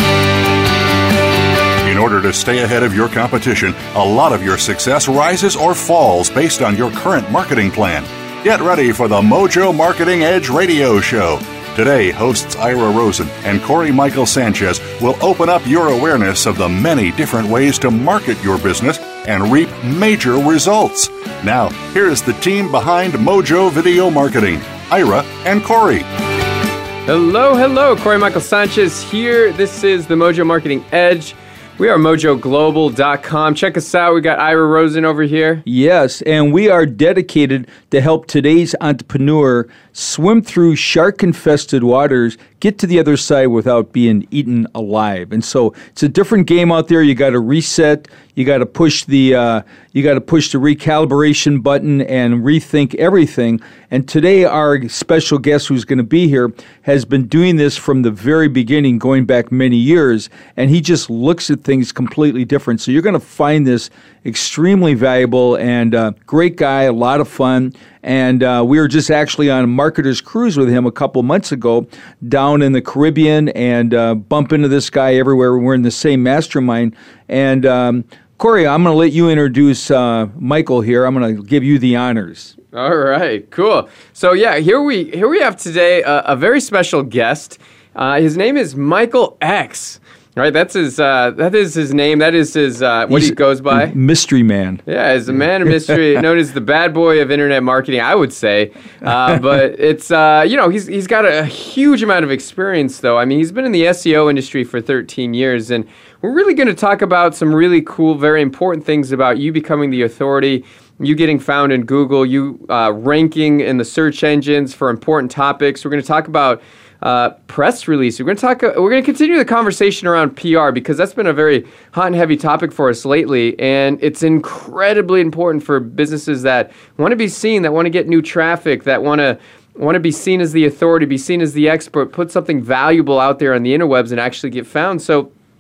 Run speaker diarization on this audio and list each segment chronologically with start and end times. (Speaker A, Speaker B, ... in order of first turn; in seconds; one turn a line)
Speaker A: 1.8-26.1
Speaker B: 27.1-35.6
Speaker C: 35.7-82.5
Speaker B: 82.7-94.0
Speaker C: 93.1-94.8
Speaker B: 94.9-135.3
Speaker C: 95.7-96.0